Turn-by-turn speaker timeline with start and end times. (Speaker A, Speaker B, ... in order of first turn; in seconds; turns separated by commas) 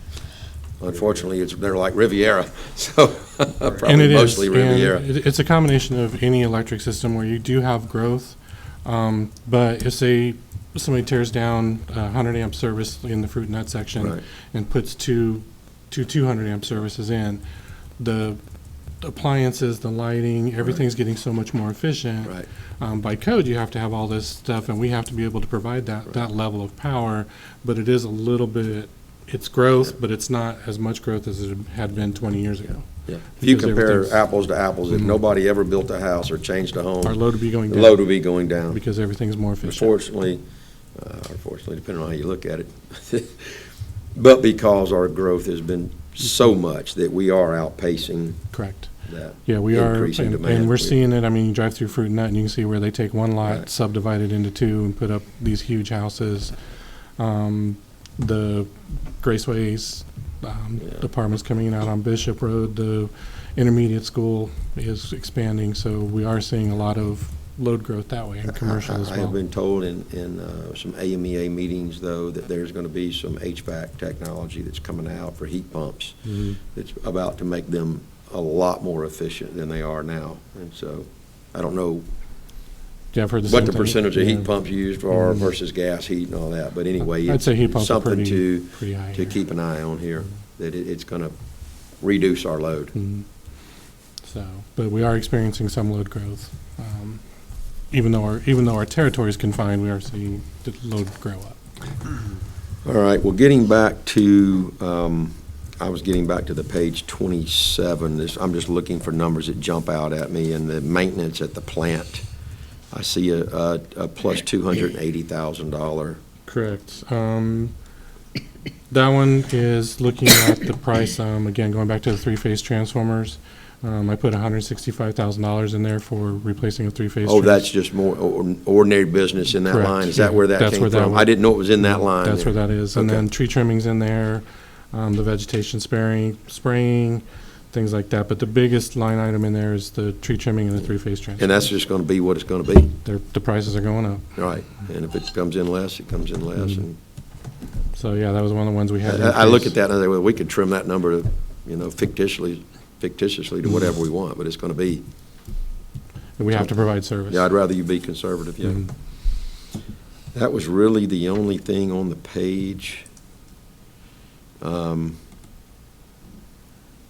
Speaker A: 0.8-5.0, Speaker B: 3.8-17.4, Speaker B: 18.0-18.4, Speaker B: 19.0-34.2, Speaker A: 33.1-38.8, Speaker B: 34.9-35.2, Speaker B: 37.0-38.0, Speaker B: 38.7-40.0, Speaker A: 39.6-40.4, Speaker A: 40.9-48.5, Speaker B: 48.5-56.5, Speaker A: 49.0-51.0, Speaker B: 57.2-69.4, Speaker A: 68.5-82.0, Speaker B: 76.2-76.6, Speaker B: 83.1-85.5, Speaker A: 83.5-91.3, Speaker B: 87.0-89.4, Speaker A: 91.9-92.9, Speaker B: 92.9-93.3, Speaker B: 94.2-97.2, Speaker B: 97.9-101.6, Speaker A: 102.8-112.2, Speaker A: 112.9-116.2, Speaker B: 116.5-117.7, Speaker B: 118.9-127.7, Speaker A: 127.2-133.2, Speaker B: 129.6-141.6, Speaker A: 141.4-142.9, Speaker B: 142.9-144.3, Speaker A: 144.3-147.0, Speaker B: 147.9-149.7, Speaker A: 149.0-155.0, Speaker B: 156.4-157.5, Speaker A: 156.5-158.9, Speaker A: 160.3-163.1, Speaker A: 164.6-165.2